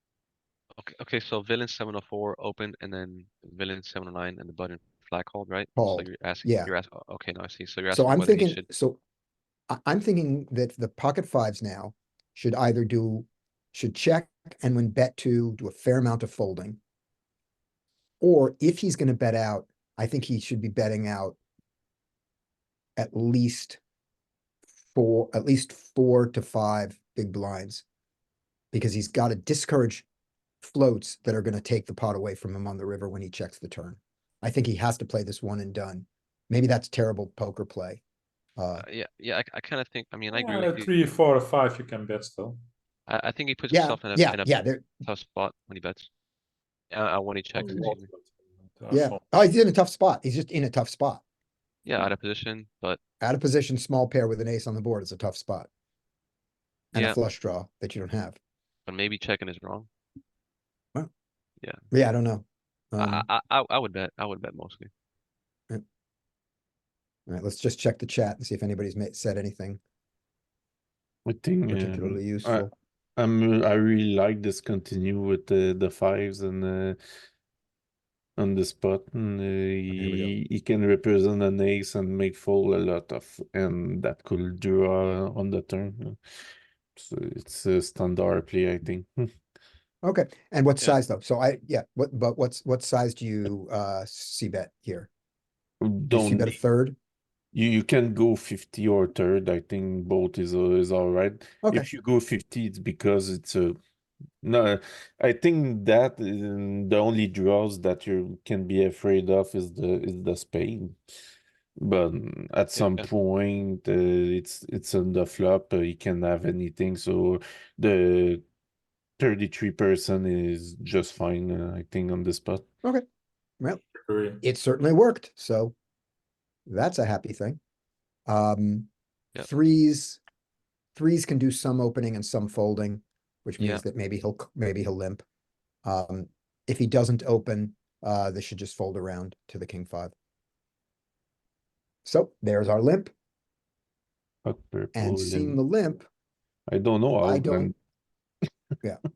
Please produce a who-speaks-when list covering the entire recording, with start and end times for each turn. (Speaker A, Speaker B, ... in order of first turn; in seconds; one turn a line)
Speaker A: 0.8-8.7
Speaker B: 5.8-6.7
Speaker B: 7.9-9.0
Speaker B: 9.7-16.8
Speaker B: 18.2-21.4
Speaker B: 23.0-23.8
Speaker B: 24.9-27.8
Speaker B: 28.7-30.1
Speaker B: 30.6-38.0
Speaker B: 38.6-38.8
Speaker A: 38.8-40.9
Speaker C: 40.3-42.6
Speaker A: 43.1-46.1
Speaker B: 43.7-45.0
Speaker A: 46.9-48.0
Speaker C: 47.5-49.2
Speaker B: 48.9-51.2
Speaker A: 51.8-53.0
Speaker B: 53.2-55.7
Speaker B: 56.9-58.4
Speaker A: 56.9-57.2
Speaker A: 58.9-59.9
Speaker B: 61.9-63.2
Speaker A: 63.0-64.9
Speaker B: 67.3-69.8
Speaker D: 71.2-77.0
Speaker B: 71.7-72.7
Speaker D: 78.4-86.2
Speaker B: 79.9-80.3
Speaker D: 87.0-89.3
Speaker B: 90.0-95.1
Speaker D: 95.8-96.6
Speaker B: 96.1-97.0
Speaker D: 97.5-103.8
Speaker D: 104.4-111.1
Speaker D: 111.8-118.4
Speaker A: 112.8-113.0
Speaker D: 119.2-122.6
Speaker C: 124.0-124.4
Speaker B: 124.4-125.7
Speaker B: 126.7-127.6
Speaker B: 128.3-130.2
Speaker B: 130.9-135.2
Speaker B: 135.8-140.1
Speaker B: 142.0-143.1
Speaker D: 144.4-145.6
Speaker B: 144.9-146.1
Speaker D: 146.7-147.7
Speaker B: 147.2-147.7